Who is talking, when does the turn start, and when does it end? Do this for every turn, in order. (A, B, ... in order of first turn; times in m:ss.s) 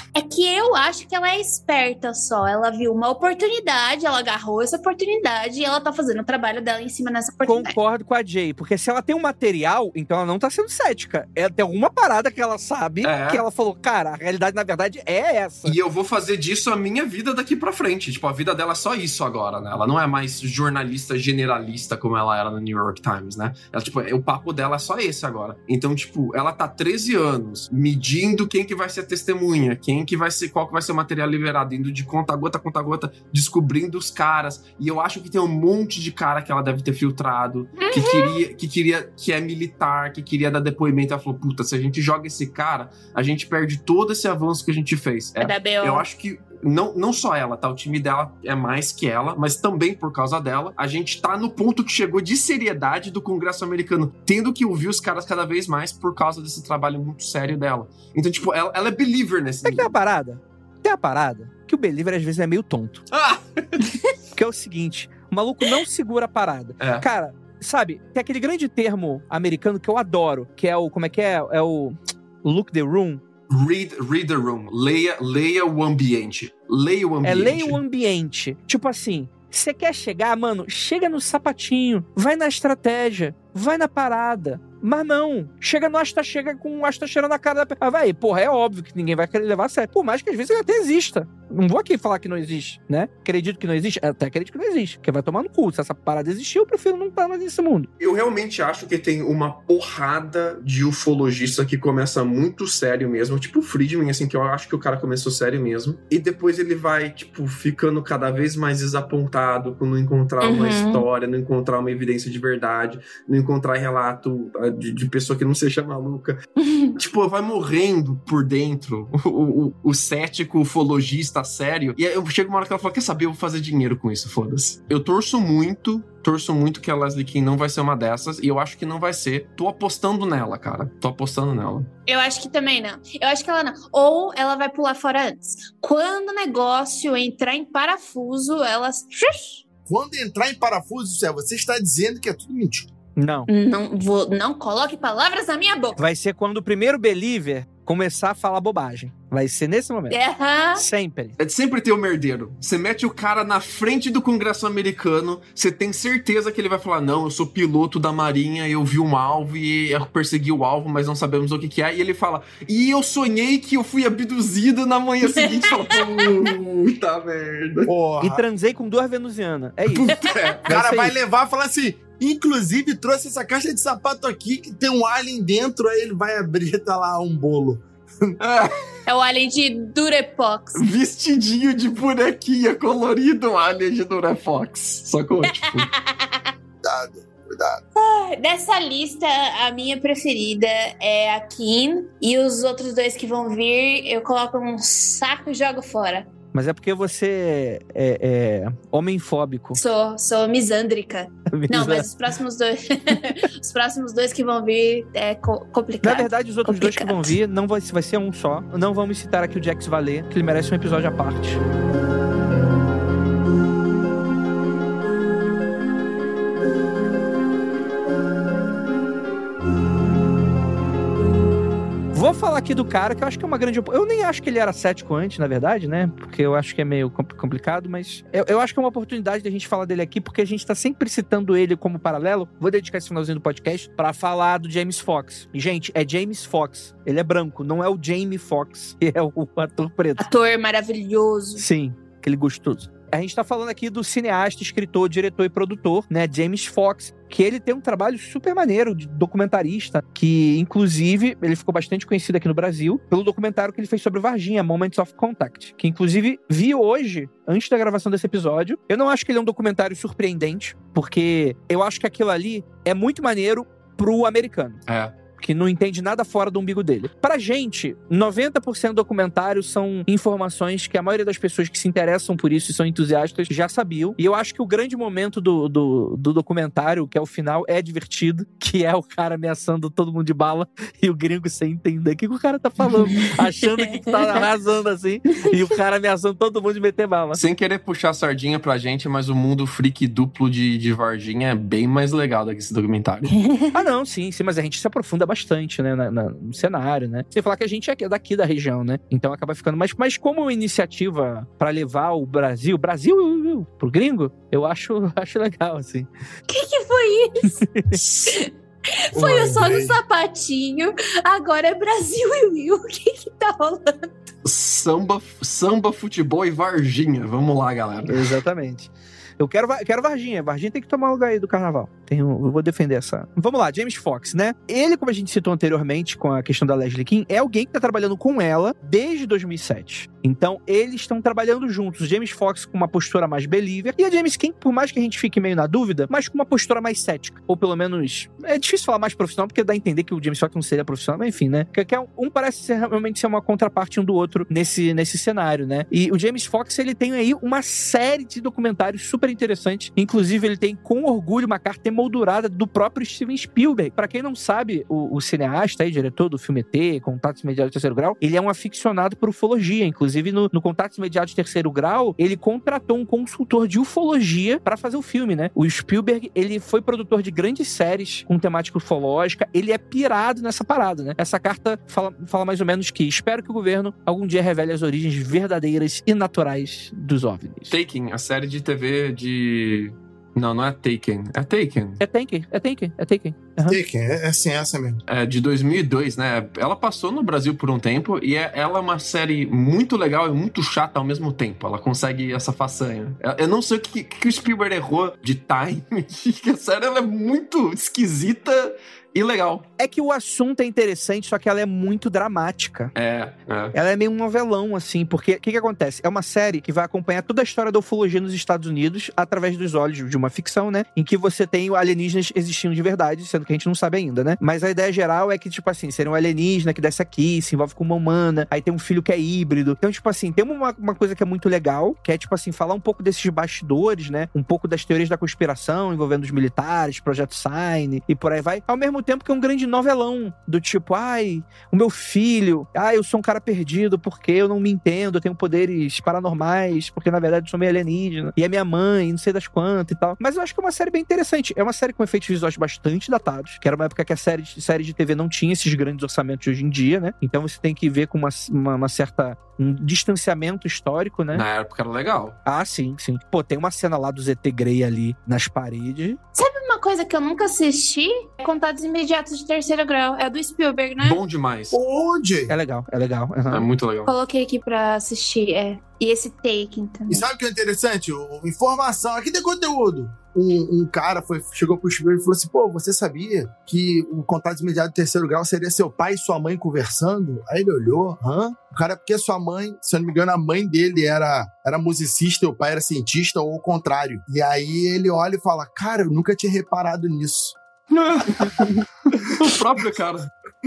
0:00.2-0:07.7 A
0:07.4-0:15.8 B
0:13.0-0:13.4 C
0:15.6-0:59.9 C
0:37.8-0:38.4 A
0:45.4-0:46.0 A
0:59.6-1:03.0 B
1:03.1-1:04.0 C
1:04.4-1:13.2 B
1:06.8-1:07.1 C
1:13.5-1:17.8 C
1:17.2-1:37.9 B
1:38.0-1:56.4 C
1:50.4-1:51.0 A
1:56.6-1:57.0 A
1:57.0-2:11.9 C
2:12.1-2:19.6 A
2:19.9-2:22.9 D
2:23.2-2:23.5 B
2:23.5-2:26.0 A
2:26.0-2:30.2 B
2:30.1-2:30.8 A
2:30.8-2:31.4 B
2:31.4-2:47.9 C
2:45.2-2:46.2 A
2:47.9-2:48.4 D
2:48.2-2:50.1 B
2:50.0-2:58.4 D
2:50.7-2:51.2 B
2:58.4-2:58.8 C
2:59.1-3:00.8 A
3:00.8-3:05.9 C
3:05.5-3:06.5 A
3:06.8-3:07.8 D
3:08.0-3:16.3 A
3:16.5-3:19.8 B
3:19.8-3:27.4 A
3:21.5-3:22.1 B
3:26.0-3:31.6 B
3:42.1-4:00.2 B
4:00.2-4:01.6 A
4:01.6-4:24.8 B
4:24.9-4:25.1 C
4:25.4-4:47.4 B
4:44.1-4:44.4 A
4:47.3-4:53.4 C
4:53.4-4:53.7 A
4:53.7-5:06.1 B
5:06.5-5:08.5 A
5:07.7-5:08.0 B
5:09.1-5:14.2 A
5:09.1-5:10.0 D
5:14.4-5:18.2 C
5:18.1-6:17.8 B
6:17.7-6:22.0 C
6:22.0-6:23.8 B
6:23.7-6:25.0 D
6:25.1-6:39.7 C
6:39.8-6:42.9 B
6:43.0-6:43.7 C
6:43.7-7:31.4 B
7:31.3-7:32.4 C
7:32.5-7:36.2 B
7:36.4-7:41.2 A
7:41.0-7:41.8 C
7:41.7-7:42.5 D
7:42.5-7:43.7 B
7:43.5-7:44.1 C
7:44.1-7:47.2 A
7:47.1-8:07.6 D
8:07.9-8:10.3 C